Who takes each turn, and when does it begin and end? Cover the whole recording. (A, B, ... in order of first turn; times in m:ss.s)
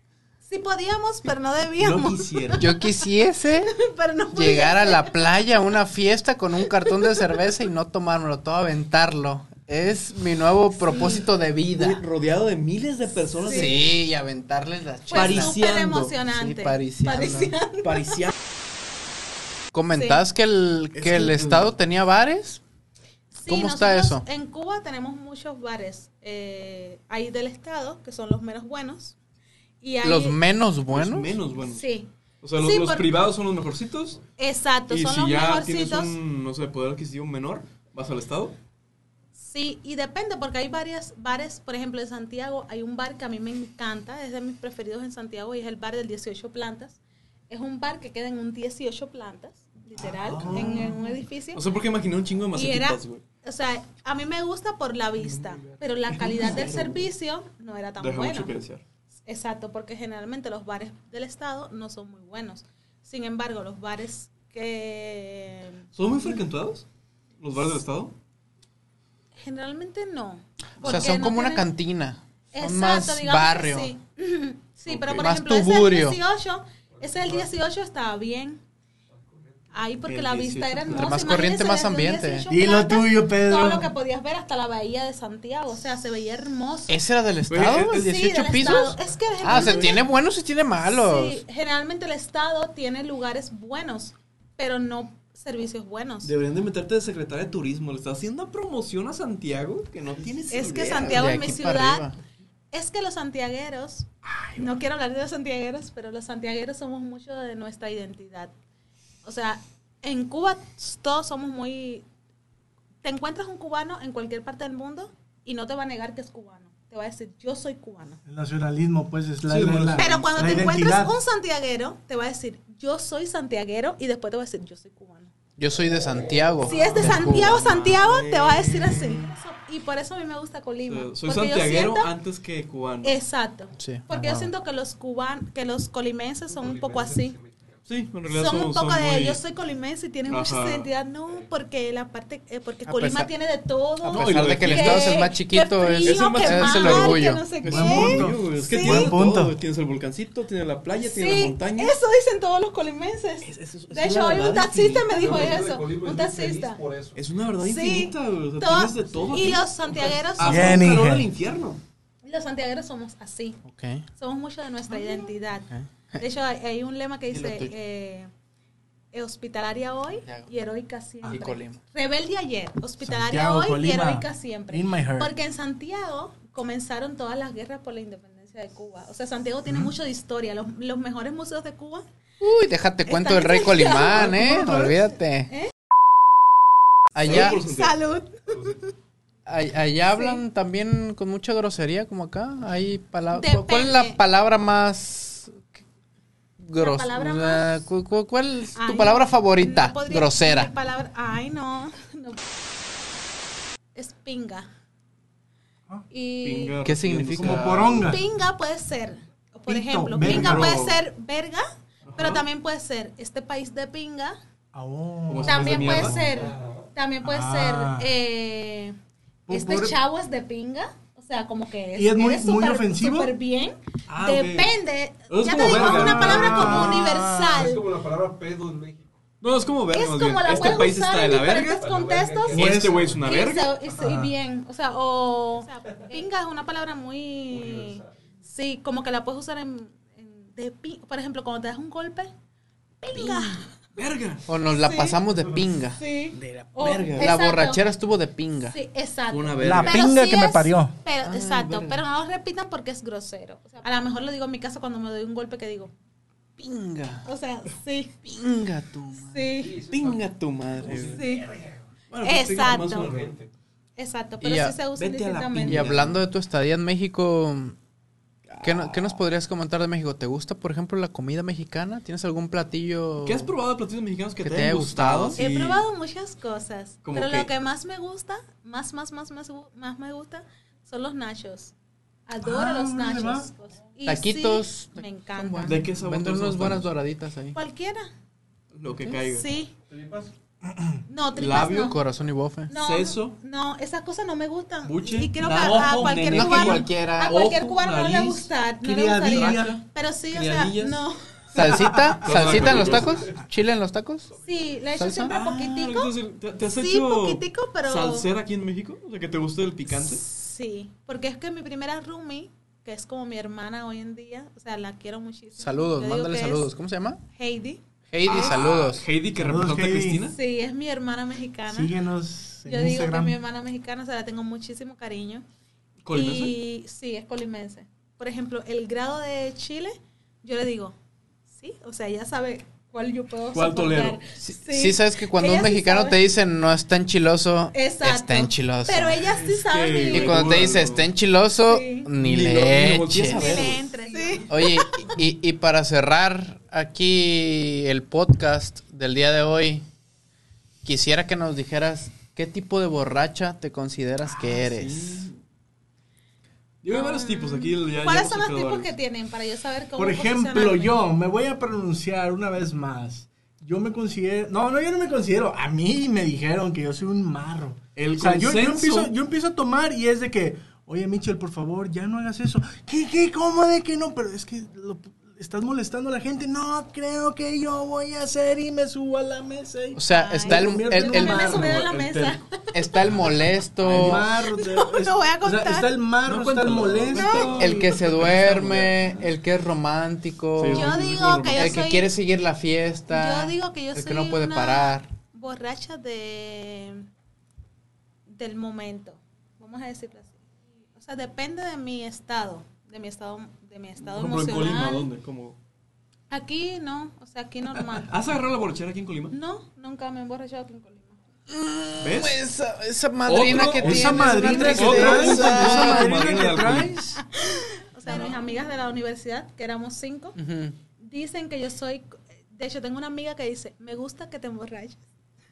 0:00.4-0:03.0 A
0:01.8-0:02.8 B
0:02.5-0:03.8 C
0:03.6-0:05.3 A
0:04.3-0:12.0 C
0:06.6-0:07.4 A
0:10.9-0:11.2 A
0:10.9-0:14.0 B
0:13.4-0:13.8 A
0:13.4-0:15.6 C
0:15.1-0:18.3 A
0:15.1-0:16.2 B
0:16.2-0:17.5 C
0:17.8-0:18.3 B
0:19.7-0:22.6 C
0:19.9-0:20.2 A
0:20.9-0:21.7 B
0:23.3-0:29.1 A
0:23.4-0:24.2 C
0:29.8-0:30.4 A
0:30.0-0:31.4 C
0:30.9-0:31.8 B
0:31.6-0:33.1 A
0:32.4-0:34.2 B
0:34.4-0:36.1 A
0:34.9-0:38.5 B
0:39.3-0:47.0 A
0:47.5-0:51.6 A
0:50.0-0:53.2 B
0:50.4-0:50.8 D
0:52.5-0:58.5 A
0:55.3-0:57.1 B
0:58.0-0:58.8 B
0:59.2-1:05.9 A
1:05.9-1:06.8 B
1:07.4-1:08.1 B
1:09.3-1:11.7 A
1:10.8-1:11.2 B
1:10.8-1:13.9 C
1:12.5-1:18.6 A
1:14.9-1:15.3 B
1:15.1-1:16.2 C
1:17.0-1:17.5 E
1:19.7-1:27.0 A
1:20.1-1:21.4 B
1:20.9-1:22.5 C
1:22.5-1:23.9 D
1:26.9-1:31.4 C
1:27.5-1:28.2 B
1:27.9-1:30.0 A
1:30.8-1:36.3 A
1:36.2-1:41.3 B
1:40.5-1:42.1 A
1:41.0-1:42.2 C
1:42.7-1:48.5 A
1:44.2-1:44.7 B
1:49.2-1:52.0 A
1:53.0-1:58.2 A
1:58.2-2:01.2 D
1:59.4-2:00.8 B
2:00.0-2:05.3 A
2:05.6-2:07.6 C
2:06.6-2:12.1 A
2:06.7-2:09.4 B
2:10.9-2:13.2 B
2:13.0-2:17.4 A
2:13.7-2:14.5 C
2:16.6-2:17.5 E
2:17.8-2:19.4 B
2:18.3-2:29.1 A
2:20.3-2:20.9 B
2:22.9-2:23.3 C
2:24.0-2:27.4 C
2:24.1-2:25.3 B
2:26.0-2:32.0 B
2:27.6-2:29.5 D
2:31.0-2:36.8 A
2:33.4-2:35.6 B
2:35.1-2:37.2 E
2:37.1-2:41.8 B
2:37.6-2:40.9 A
2:40.4-2:41.3 D
2:42.2-2:43.6 A
2:43.6-2:44.0 C
2:44.2-2:48.3 A
2:47.3-2:47.7 C
2:49.1-3:02.0 A
2:51.2-2:51.8 C
2:53.0-2:55.3 D
3:02.4-3:05.5 C
3:03.0-3:04.8 A
3:04.1-3:04.9 B
3:07.1-3:07.6 C
3:07.2-3:07.9 B
3:07.3-3:08.9 A
3:09.4-3:15.8 C
3:10.1-3:10.4 A
3:13.3-3:14.2 A
3:16.6-3:20.7 C
3:16.7-3:17.8 A
3:18.7-3:22.4 A
3:23.9-3:24.7 A
3:26.1-3:26.8 A
3:26.4-3:28.2 B
3:26.8-3:28.0 C
3:27.4-3:28.2 D
3:28.0-3:34.4 A
3:29.7-3:30.7 D
3:30.1-3:31.0 B
3:32.1-3:32.4 B
3:34.7-3:36.3 D
3:35.3-3:36.5 B
3:35.4-3:39.0 A
3:37.2-3:38.1 D
3:39.5-3:40.0 D
3:39.5-3:47.8 A
3:41.9-3:43.3 D
3:44.1-3:44.7 B
3:45.3-3:47.0 B
3:45.6-3:47.7 D
3:47.5-3:49.1 E
3:49.4-3:51.8 B
3:49.9-3:52.6 A
3:50.5-3:50.9 E
3:51.8-3:53.3 E
3:52.5-3:53.8 B
3:52.5-3:53.1 D
3:53.2-4:02.3 A
3:53.9-3:54.3 D
3:57.5-3:58.1 E
4:03.0-4:03.7 A
4:03.1-4:03.6 C
4:03.9-4:04.4 B
4:04.5-4:06.0 C
4:04.7-4:05.2 A
4:05.9-4:07.9 A
4:06.4-4:07.4 B
4:07.1-4:08.8 C
4:08.7-4:15.9 A
4:09.3-4:10.1 B
4:09.6-4:10.9 D
4:11.3-4:11.8 B
4:11.4-4:11.9 C
4:16.6-4:17.2 C
4:17.2-4:18.2 A
4:18.2-4:19.5 C
4:19.2-4:19.9 A
4:19.6-4:20.2 E
4:19.9-4:21.2 B
4:20.8-4:21.6 E
4:21.1-4:21.6 A
4:22.1-4:23.5 B
4:22.2-4:23.2 A
4:23.0-4:23.4 E
4:24.0-4:25.9 A
4:24.4-4:24.8 C
4:25.0-4:26.2 B
4:25.6-4:27.8 C
4:28.5-4:29.2 B
4:28.6-4:33.5 C
4:33.2-4:35.8 B
4:34.4-4:35.4 C
4:35.4-4:41.7 A
4:37.0-4:37.5 B
4:42.3-4:45.8 A
4:42.4-4:43.5 D
4:44.1-4:47.6 C
4:45.6-4:46.9 B
4:47.5-4:48.1 A
4:48.7-4:49.5 B
4:49.3-4:49.7 A
4:49.9-4:50.3 E
4:50.7-4:51.0 D
4:51.1-4:52.0 A
4:51.4-4:52.0 B
4:51.5-4:52.7 C
4:52.7-5:01.6 A
4:52.7-4:53.4 B
4:54.8-4:58.5 B
4:55.8-4:57.3 C
4:58.8-4:59.8 D
4:59.2-5:01.0 B
5:01.5-5:04.3 C
5:01.6-5:02.8 D
5:02.2-5:03.3 B
5:04.4-5:06.1 A
5:05.0-5:05.3 C
5:05.3-5:10.2 B
5:06.8-5:08.3 A
5:09.9-5:16.7 A
5:15.6-5:17.2 C
5:17.3-5:17.8 A
5:18.1-5:19.0 C
5:18.2-5:20.4 B
5:19.4-5:20.2 D
5:20.3-5:21.9 A
5:21.7-5:23.4 D
5:22.6-5:25.4 A
5:26.0-5:26.5 B
5:26.1-5:30.9 A
5:31.5-5:36.2 A
5:33.5-5:34.2 B
5:34.4-5:39.3 C
5:37.7-5:40.4 A
5:39.2-5:41.1 B
5:40.1-5:43.6 C
5:41.7-5:42.1 A
5:42.2-5:43.9 B
5:43.3-5:45.1 A
5:44.1-5:44.4 D
5:44.5-5:49.8 C
5:50.8-5:55.3 C
5:54.2-5:55.4 B
5:56.8-5:58.9 B
5:56.9-6:01.0 A
6:00.0-6:21.8 D
6:08.0-6:09.1 B
6:19.9-6:21.6 C
6:20.1-6:22.8 A
6:21.4-6:22.4 B
6:22.7-6:24.2 C
6:23.8-6:28.0 D
6:23.8-6:24.2 B
6:24.4-6:25.9 A
6:26.2-6:29.2 B
6:27.1-6:27.6 A
6:27.5-6:31.0 C
6:30.6-6:31.8 B
6:30.7-6:32.1 A
6:31.5-6:35.1 C
6:33.1-6:37.0 A
6:38.3-6:40.4 A
6:41.0-6:45.1 A
6:44.0-6:45.6 B
6:46.3-6:48.1 A
6:48.0-6:49.3 B
6:49.3-6:51.2 A
6:51.5-6:56.7 C
6:52.0-6:52.4 B
6:53.2-6:57.0 B
6:53.7-6:57.2 D
6:57.1-7:00.4 A
6:58.0-6:58.4 B
7:00.4-7:00.7 C
7:01.0-7:05.0 A